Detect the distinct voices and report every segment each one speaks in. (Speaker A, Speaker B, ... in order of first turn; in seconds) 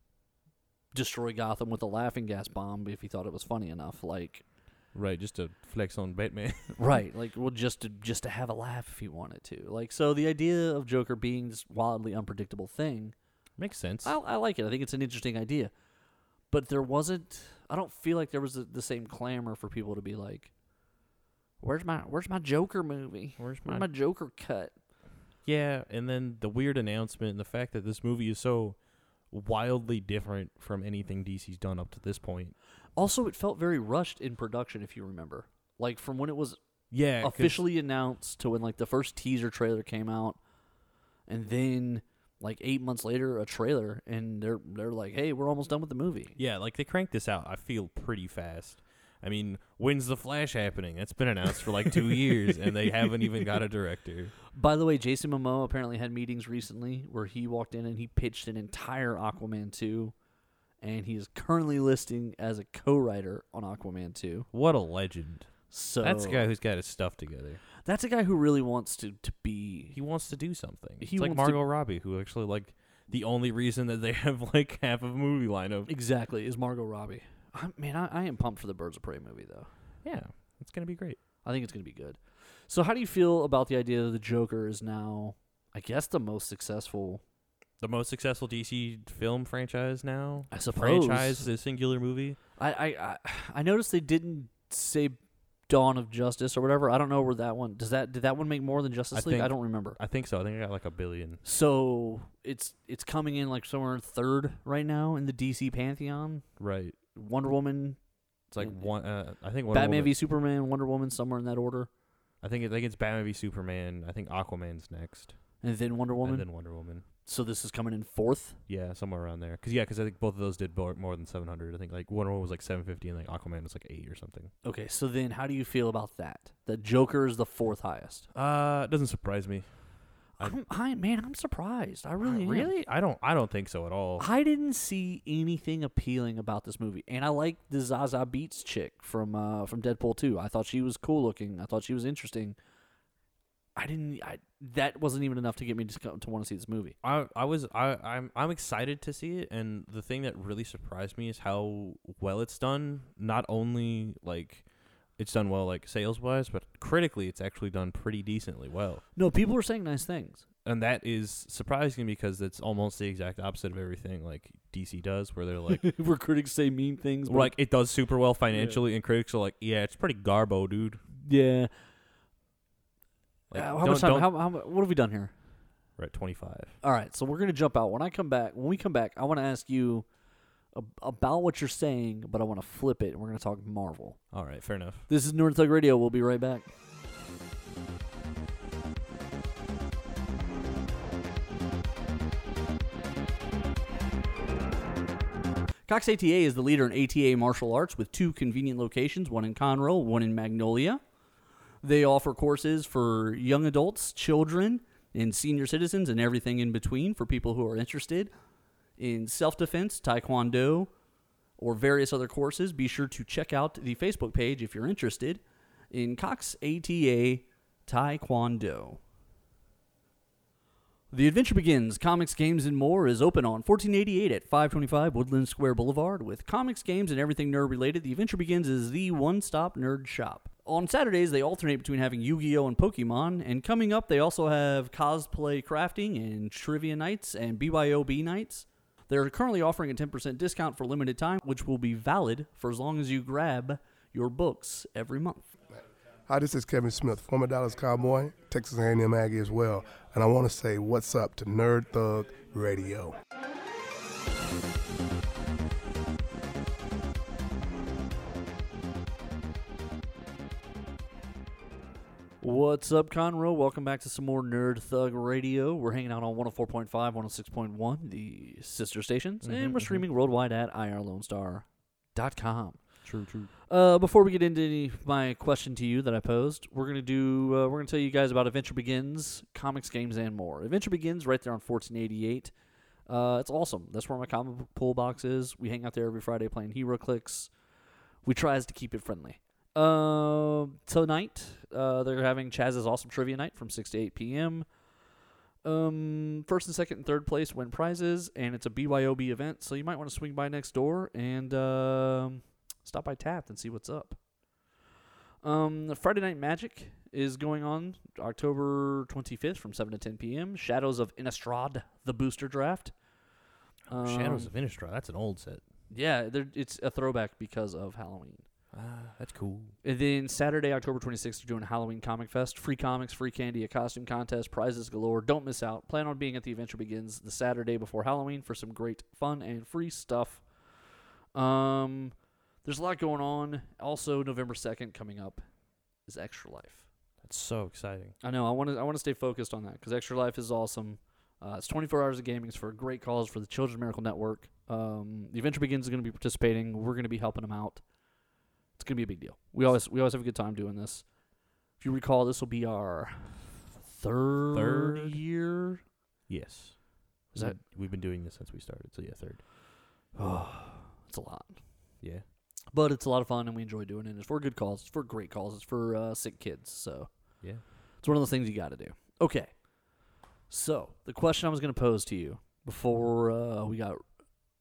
Speaker A: 0.9-4.4, 6.8-13.2, 14.0-15.7, 16.5-20.5, 21.6-24.7, 33.0-36.6, 37.2-40.4, 41.3-46.4, 54.5-60.1, 60.8-64.5, 65.7-66.5, 67.8-70.0, 71.0-71.6, 75.9-79.7, 81.4-87.2, 90.5-91.5, 92.6-95.2, 95.7-100.0, 101.4-106.5, 107.2-108.0, 108.5-108.8, 109.7-111.9, 115.6-116.5, 117.2-118.6, 124.6-128.3, 130.4-132.7, 134.2-142.6, 143.8-147.0, 159.2-160.4, 165.7-167.5, 168.5-168.8, 171.2-171.7, 173.5-175.3, 176.8-180.1, 180.7-184.2, 185.1-186.7, 195.9-201.0, 201.8-208.3, 209.0-210.9, 211.6-219.0, 221.1-245.5, 262.4-272.8, 273.7-282.5, 283.1-287.5, 288.2-294.7, 295.6-304.2, 305.4-312.9, 313.9-314.5, 315.9-318.4, 319.8-330.4, 331.4-335.4, 336.1-336.9, 338.2-347.8, 348.8-351.1, 351.8-355.8, 357.3-357.6, 360.1-361.6, 362.7-367.1, 368.0-369.6, 370.5-374.0
Speaker B: 4.9-6.8, 13.6-14.2, 23.4-23.9, 25.4-28.8, 29.3-32.5, 36.9-37.6, 46.4-54.3, 64.5-67.6, 69.9-75.9, 80.0-81.2, 87.8-92.4, 99.1-101.4, 106.6-107.0, 108.5-110.1, 112.4-115.4, 116.2-117.0, 118.7-124.5, 128.3-129.7, 132.2-134.3, 147.0-154.7, 155.2-159.0, 160.7-165.9, 167.3-171.0, 173.5-174.3, 176.0-176.8, 184.3-185.1, 269.4-270.0, 273.0-273.5, 313.9-315.6, 318.7-319.8, 337.2-338.1, 354.5-355.2, 356.3-359.4
Speaker C: 246.3-253.2